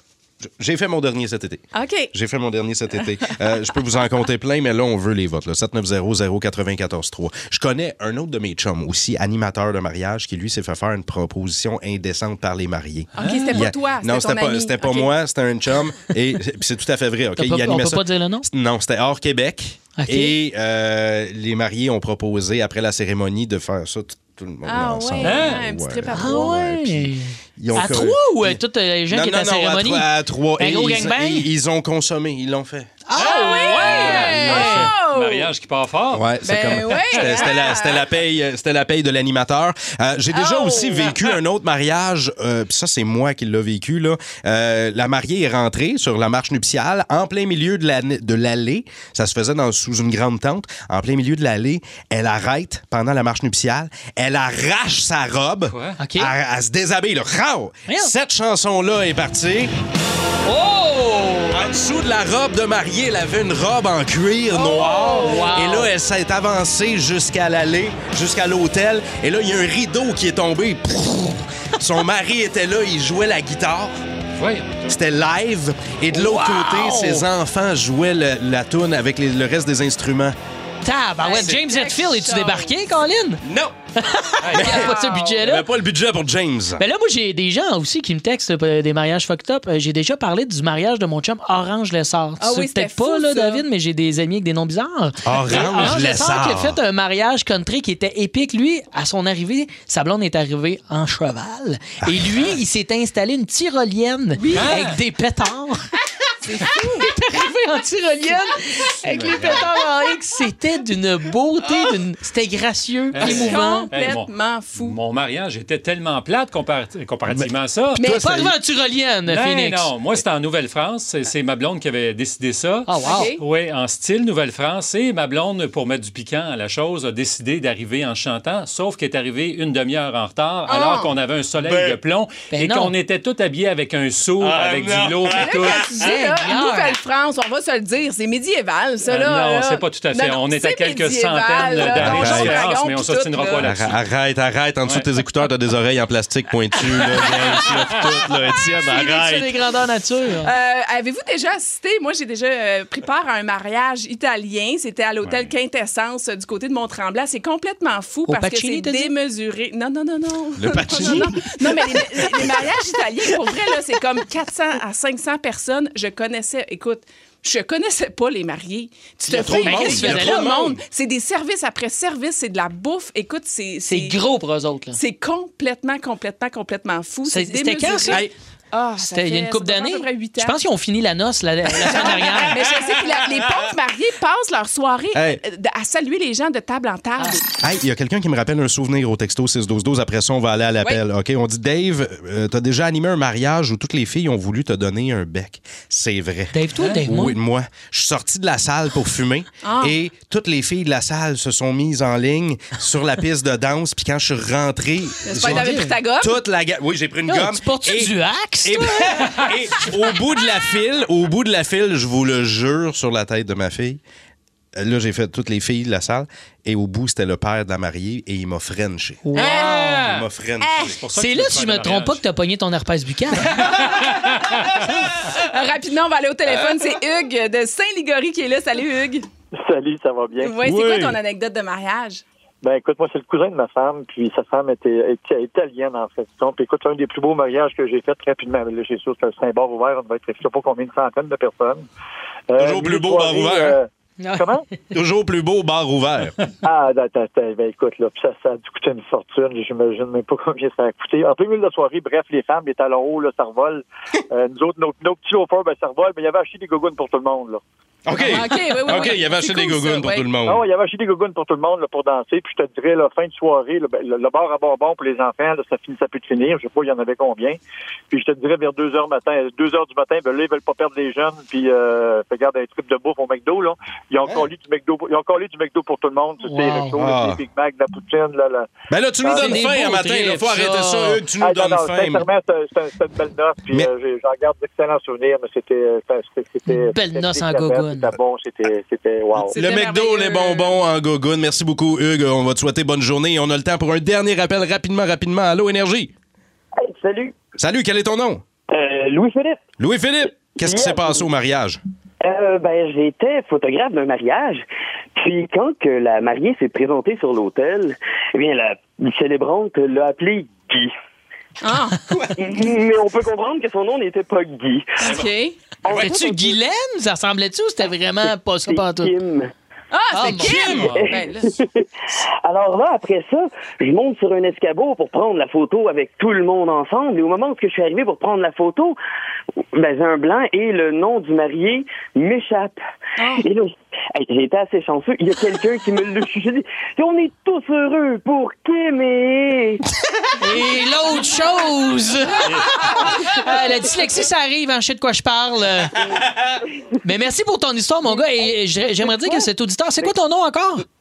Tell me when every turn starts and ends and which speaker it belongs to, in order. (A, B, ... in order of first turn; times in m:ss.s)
0:00.4-0:33.0 A
0:01.7-0:02.1 B
0:13.2-0:13.6 C
0:13.2-0:15.1 B
0:17.4-0:18.5 D
0:20.0-0:20.4 D
0:24.6-0:26.5 B
0:25.2-0:25.6 C
0:26.1-0:31.5 D
0:33.1-0:34.9 D
0:33.2-0:35.5 B
0:33.5-0:36.8 C
0:34.0-0:34.9 A
0:36.1-0:59.7 A
0:36.4-0:38.0 B
0:40.3-0:41.1 B
0:55.7-0:56.0 C
0:56.0-0:56.3 D
1:00.4-1:01.6 D
1:01.5-1:14.0 A
1:05.1-1:05.9 D
1:14.4-1:14.8 C
1:14.9-1:20.4 A
1:16.1-1:17.3 D
1:20.8-1:23.4 D
1:21.2-1:22.8 B
1:23.4-1:23.8 A
1:24.0-1:25.7 D
1:24.4-1:24.8 C
1:24.5-1:26.8 A
1:24.6-1:25.4 B
1:26.8-1:45.9 D
1:32.4-1:33.6 B
1:35.2-1:36.8 A
1:42.0-1:42.3 A
1:44.4-1:44.7 B
1:44.5-1:45.0 C
1:46.4-1:47.1 B
1:46.6-1:53.9 D
1:49.1-1:49.6 C
1:53.1-1:58.0 C
1:53.2-1:55.0 B
1:58.0-1:59.9 D
1:58.0-1:58.5 A
1:59.3-2:15.9 C
2:02.9-2:03.3 D
2:03.0-2:03.4 B
2:10.7-2:11.1 B
2:11.6-2:12.0 A
2:12.5-2:12.9 D
2:14.4-2:15.8 A
2:15.3-2:23.6 B
2:16.0-2:17.0 D
2:19.0-2:24.0 C
2:21.9-2:22.7 A
2:23.6-2:29.5 A
2:27.0-2:27.8 C
2:28.9-2:30.5 D
2:30.4-2:54.2 B
2:35.2-2:35.5 C
2:38.3-2:39.1 D
2:40.6-2:42.8 A
2:49.2-2:50.8 A
2:49.6-2:50.5 D
2:53.8-2:55.0 D
2:54.9-3:00.6 B
2:57.3-2:58.3 D
2:59.0-3:02.6 D
3:01.8-3:07.4 B
3:05.1-3:05.4 A
3:07.6-3:34.0 A
3:16.5-3:17.4 D
3:19.6-3:19.9 B
3:25.3-3:26.4 B
3:25.4-3:25.9 D
3:27.3-3:29.5 D
3:34.7-3:39.4 A
3:39.2-3:40.1 D
3:39.3-3:40.0 B
3:39.8-3:40.2 C
3:40.1-3:41.0 A
3:40.6-3:40.9 B
3:41.0-3:42.2 C
3:41.2-3:43.7 D
3:43.8-3:44.8 C
3:45.4-3:49.2 B
3:49.6-3:50.6 E
3:50.4-3:52.2 B
3:50.6-3:51.2 A
3:52.6-4:01.8 E
4:02.5-4:04.6 E
4:02.6-4:03.8 A
4:04.2-4:04.6 D
4:04.9-4:06.3 A
4:06.6-4:17.6 E
4:18.0-4:20.6 A
4:18.2-4:20.3 B
4:20.4-4:27.6 E
4:28.1-4:39.6 E
4:36.4-4:37.0 D
4:37.0-4:37.4 A
4:38.9-4:42.2 A
4:39.3-4:41.2 D
4:41.4-4:49.6 E
4:46.7-4:48.1 D
4:49.4-4:56.1 A
4:49.5-4:50.8 B
4:56.8-4:57.4 F
4:57.6-4:58.4 A
4:58.7-4:59.7 F
4:59.8-5:01.8 A
5:00.6-5:01.2 F
5:02.2-5:10.9 F
5:11.6-5:12.0 B
5:12.3-5:15.2 F
5:15.0-5:15.6 B
5:15.8-5:16.6 F
5:15.9-5:19.1 D
5:18.2-5:19.5 F
5:19.9-5:21.5 B
5:20.1-5:21.0 D
5:20.5-5:21.8 F
5:22.4-5:29.0 F
5:29.7-5:32.8 F
5:33.2-5:33.4 B
5:33.4-5:39.8 F
5:40.4-5:45.9 D
5:47.0-5:50.8 D